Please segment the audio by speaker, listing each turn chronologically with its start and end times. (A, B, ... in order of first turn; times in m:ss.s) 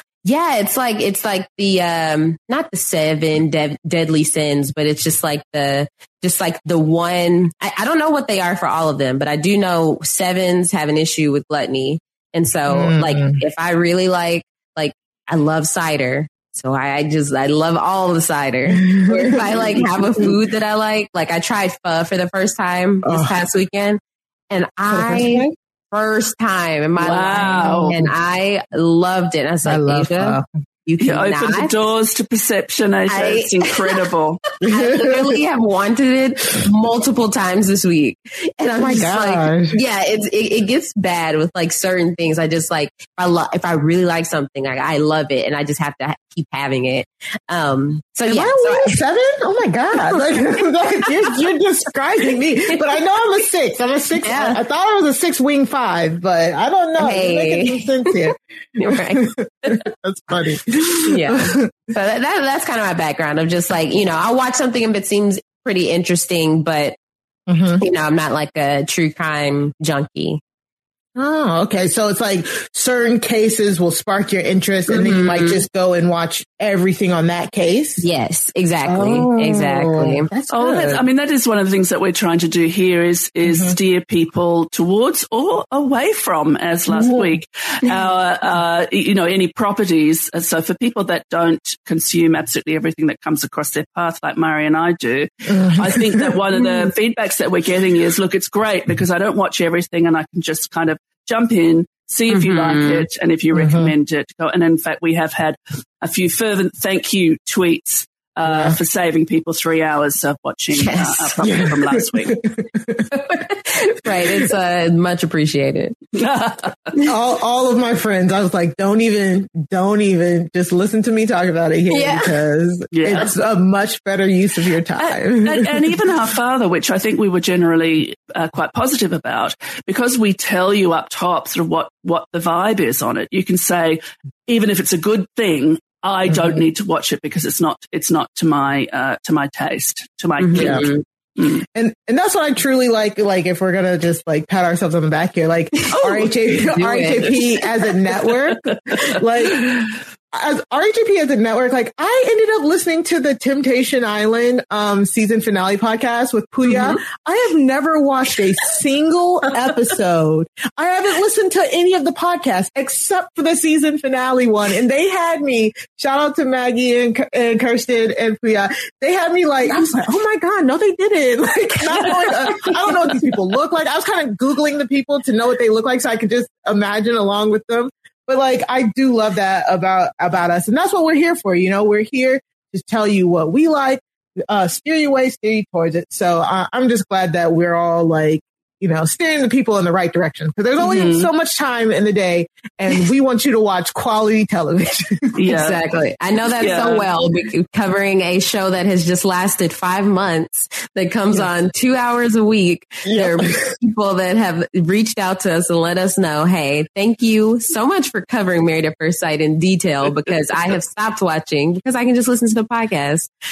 0:00.2-0:31.7 A
0:12.7-0:13.4 B
0:18.7-0:20.4 B
0:23.0-0:23.4 B
0:24.9-0:25.5 B
0:27.0-0:28.0 C
0:27.8-0:28.1 B
0:29.6-0:30.5 B
0:31.0-0:34.4 C
0:33.1-0:33.9 A
0:34.6-0:35.4 B
0:34.6-0:49.0 A
0:38.8-0:39.8 B
0:48.2-0:58.4 B
0:51.0-0:51.4 A
0:54.2-0:54.6 A
0:57.0-0:58.2 A
0:58.8-0:59.8 A
0:58.9-1:01.7 B
1:01.0-1:07.0 A
1:07.5-1:07.8 B
1:07.8-1:10.4 A
1:11.2-1:18.0 B
1:14.9-1:15.6 A
1:18.0-1:20.3 A
1:18.8-1:21.0 B
1:20.5-1:52.4 C
1:23.4-1:23.8 B
1:26.9-1:27.3 B
1:35.5-1:36.3 B
1:42.3-1:43.0 A
1:43.5-1:43.9 B
1:48.4-1:48.8 B
1:50.7-1:51.4 A
1:51.4-1:53.1 B
1:53.1-1:56.0 A
1:56.2-1:56.9 C
1:57.0-2:06.0 B
2:01.9-2:02.3 A
2:02.9-2:03.3 C
2:05.4-2:20.9 C
2:16.3-2:16.6 B
2:20.4-2:21.0 A
2:20.5-2:20.9 B
2:21.7-3:15.3 B
2:26.0-2:26.3 C
2:26.7-2:27.4 A
2:52.0-2:52.7 A
3:10.8-3:11.3 C
3:15.3-3:15.8 C
3:15.5-3:33.3 A
3:16.6-3:17.1 C
3:23.0-3:23.6 B